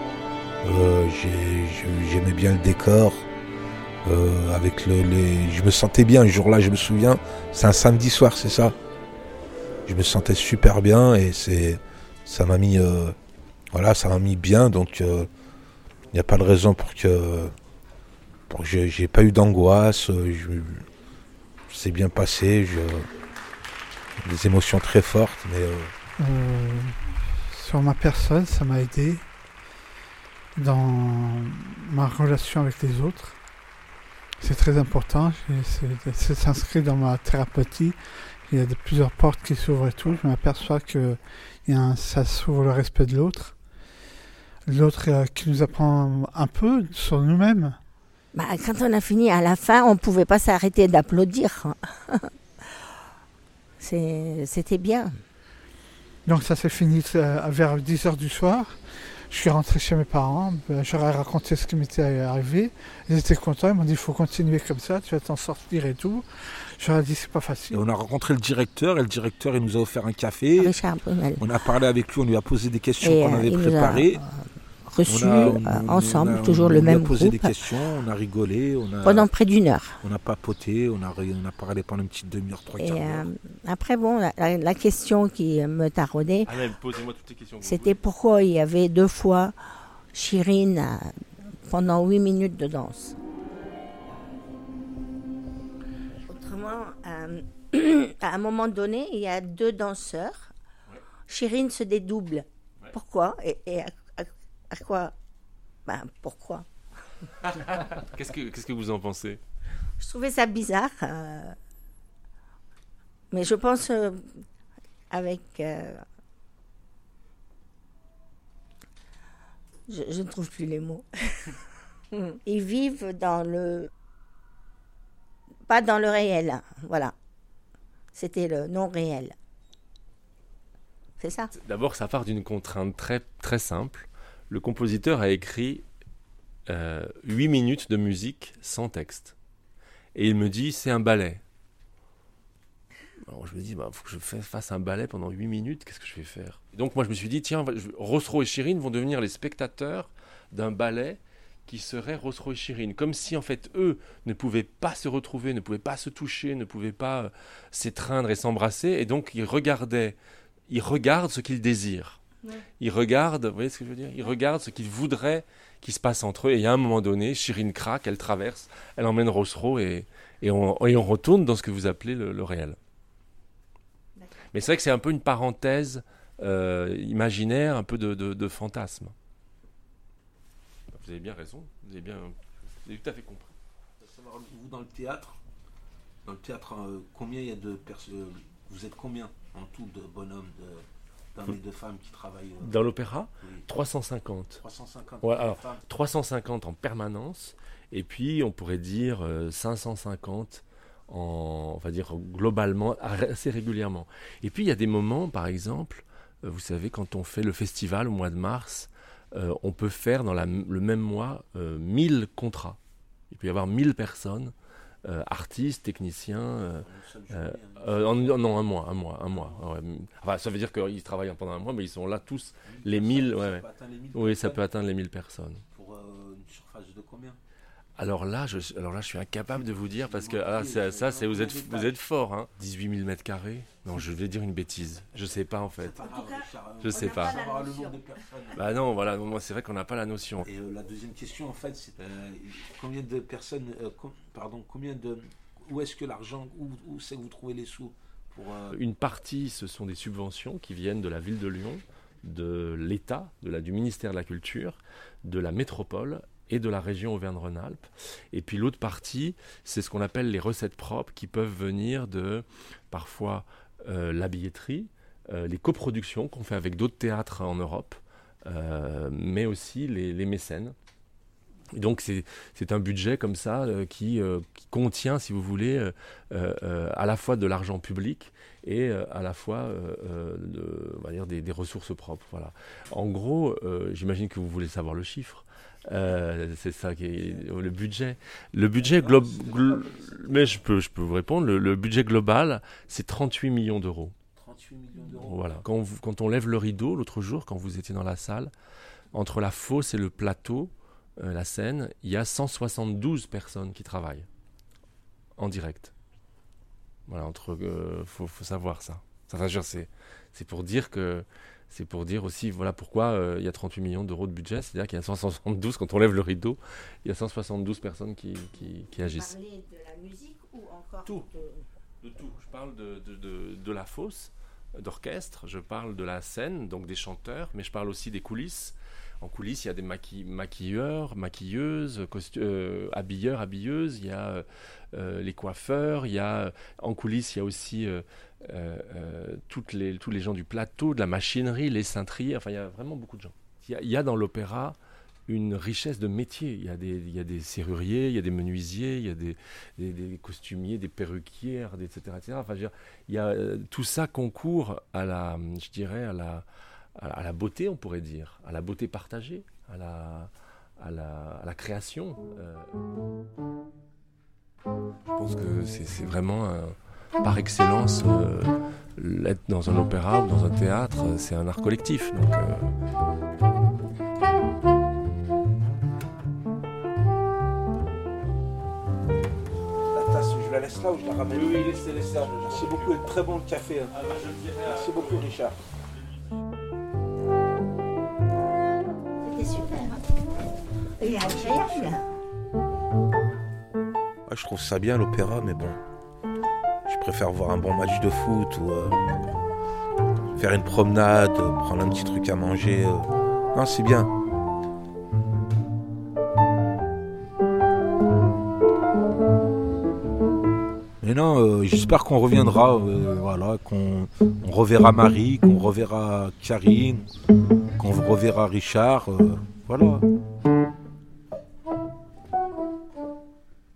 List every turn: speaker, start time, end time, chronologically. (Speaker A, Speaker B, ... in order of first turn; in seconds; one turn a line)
Speaker A: 0.6-3.3
Speaker A: 4.0-8.8
Speaker A: 9.9-13.2
Speaker A: 13.7-15.3
Speaker A: 16.1-17.5
Speaker A: 18.5-20.9
Speaker A: 21.7-23.1
Speaker A: 24.2-25.9
Speaker B: 26.2-29.2
Speaker B: 30.6-33.4
Speaker B: 34.4-43.6
Speaker B: 44.7-47.8
Speaker C: 48.3-52.3
Speaker C: 53.8-55.2
Speaker B: 56.3-58.8
Speaker B: 59.3-66.2
Speaker B: 66.8-67.8
Speaker A: 67.7-70.7
Speaker C: 70.6-71.4
Speaker A: 71.4-74.2
Speaker C: 73.0-77.5
Speaker A: 75.1-79.3
Speaker C: 79.0-80.0
Speaker A: 80.0-83.3
Speaker C: 82.8-86.5
Speaker D: 86.5-88.0
Speaker C: 87.6-89.6
Speaker C: 90.1-93.2
Speaker C: 96.3-100.5
Speaker C: 101.3-105.1
Speaker C: 105.9-106.7
Speaker D: 107.4-109.4
Speaker C: 110.0-111.6
Speaker C: 113.3-114.3
Speaker C: 115.1-116.0
Speaker C: 119.9-121.5
Speaker C: 122.1-123.9
Speaker C: 125.7-127.1
Speaker C: 128.1-129.3
Speaker C: 131.2-131.5
Speaker D: 131.5-135.8
Speaker D: 136.7-139.3
Speaker D: 140.2-141.4
Speaker D: 143.2-160.2
Speaker D: 160.7-162.2
Speaker D: 162.8-172.8
Speaker D: 174.5-179.1
Speaker D: 180.9-183.6
Speaker A: 184.0-185.4
Speaker A: 186.2-192.8
Speaker D: 192.6-194.6
Speaker A: 194.6-195.9
Speaker D: 195.2-212.8
Speaker D: 213.3-214.5
Speaker D: 215.1-225.6
Speaker A: 216.8-218.7
Speaker A: 219.3-219.6
Speaker A: 222.7-224.7
Speaker A: 225.7-227.4
Speaker D: 228.0-236.1
Speaker A: 229.6-232.0
Speaker A: 235.8-238.8
Speaker D: 236.8-237.4
Speaker C: 237.3-237.7
Speaker D: 238.5-240.5
Speaker A: 240.4-248.8
Speaker D: 248.7-270.8
Speaker D: 271.7-294.1
Speaker A: 287.2-287.5
Speaker A: 288.8-290.7
Speaker A: 294.4-295.6
Speaker D: 295.1-298.5
Speaker D: 299.1-304.3
Speaker D: 305.4-305.9
Speaker D: 307.1-319.3
Speaker C: 318.6-321.6
Speaker D: 322.0-344.8
Speaker D: 345.3-356.5
Speaker D: 357.0-362.8
Speaker D: 365.1-372.7
Speaker A: 379.9-383.9
Speaker D: 381.3-383.0
Speaker D: 383.9-385.3
Speaker A: 384.6-385.6
Speaker C: 389.2-390.0
Speaker C: 391.0-392.0
Speaker A: 394.3-395.8
Speaker A: 396.9-399.0
Speaker A: 400.4-404.1
Speaker A: 411.0-417.1
Speaker A: 417.8-420.1